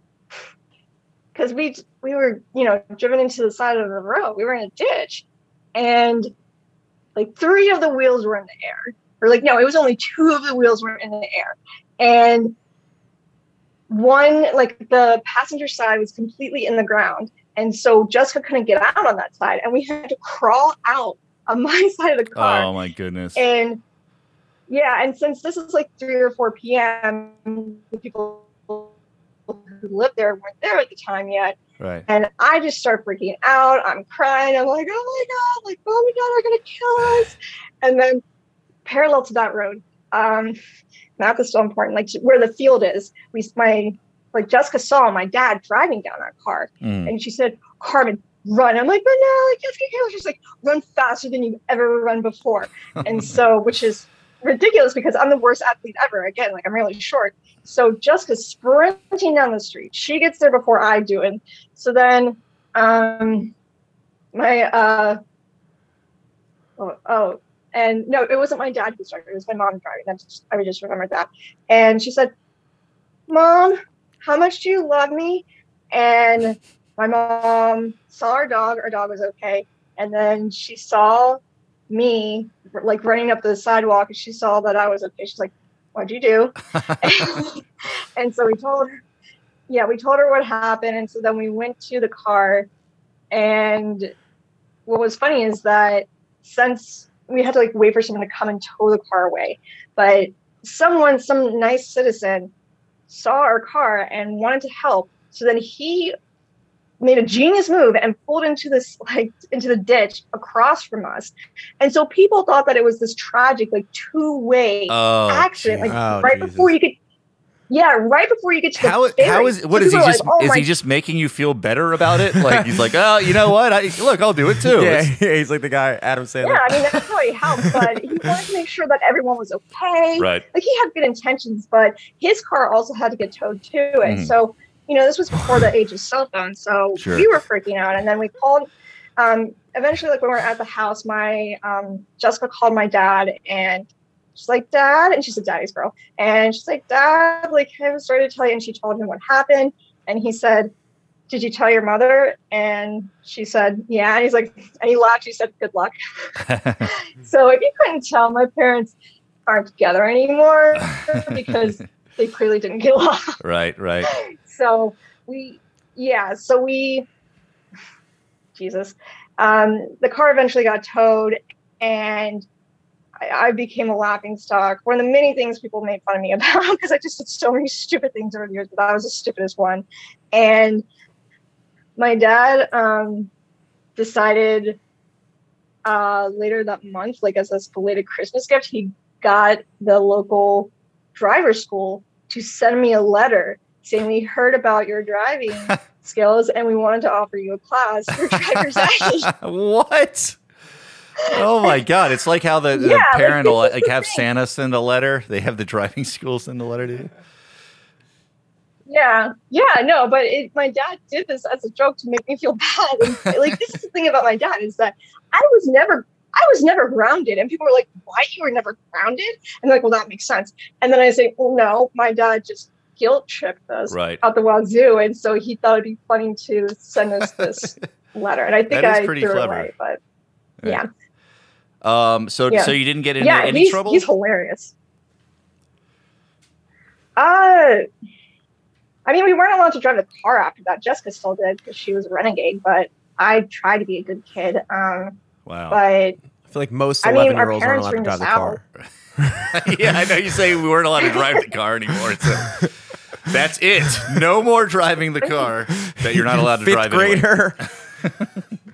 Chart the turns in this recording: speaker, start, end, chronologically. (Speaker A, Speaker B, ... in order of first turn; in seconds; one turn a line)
Speaker A: 1.3-6.3
Speaker A: 7.2-12.5
Speaker A: 13.9-22.7
Speaker B: 22.4-23.4
Speaker A: 23.3-23.8
Speaker A: 24.7-28.9
Speaker A: 29.5-38.2
Speaker B: 31.8-32.0
Speaker A: 38.8-40.6
Speaker A: 41.2-63.5
Speaker B: 46.8-47.1
Speaker A: 64.3-65.2
Speaker A: 66.8-72.3
Speaker A: 73.3-89.0
Speaker A: 89.7-92.7
Speaker A: 93.3-94.1
Speaker A: 94.9-102.5
Speaker A: 103.1-106.1
Speaker A: 107.0-117.0
Speaker B: 114.9-116.0
Speaker C: 115.8-116.7
Speaker A: 117.7-120.7
Speaker B: 118.8-125.1
Speaker C: 122.2-123.5
Speaker C: 124.6-127.1
Speaker A: 126.4-150.7
Speaker C: 127.6-128.3
Speaker B: 130.2-130.4
Speaker B: 134.0-134.3
Speaker B: 137.0-137.3
Speaker A: 151.3-155.9
Speaker B: 156.5-156.8
Speaker A: 156.8-158.9
Speaker A: 159.5-163.4
Speaker B: 160.8-161.2
Speaker B: 163.4-164.1
Speaker A: 164.1-167.1
Speaker A: 168.6-172.4
Speaker A: 173.2-180.8
Speaker A: 182.0-183.3
Speaker A: 183.9-184.8
Speaker A: 185.8-199.3
Speaker B: 198.3-200.4
Speaker A: 201.2-201.8
Speaker B: 201.3-207.1
Speaker A: 202.7-204.2
Speaker A: 208.9-230.0
Speaker B: 223.9-224.2
Speaker B: 228.7-229.7
Speaker B: 231.8-234.1
Speaker A: 232.5-234.7
Speaker A: 237.2-237.8
Speaker A: 239.1-245.2
Speaker B: 245.4-245.8
Speaker A: 245.7-246.2
Speaker C: 246.5-248.6
Speaker A: 247.0-248.6
Speaker C: 249.2-249.5
Speaker B: 249.4-252.7
Speaker A: 251.1-251.4
Speaker B: 253.2-257.3
Speaker C: 255.9-257.6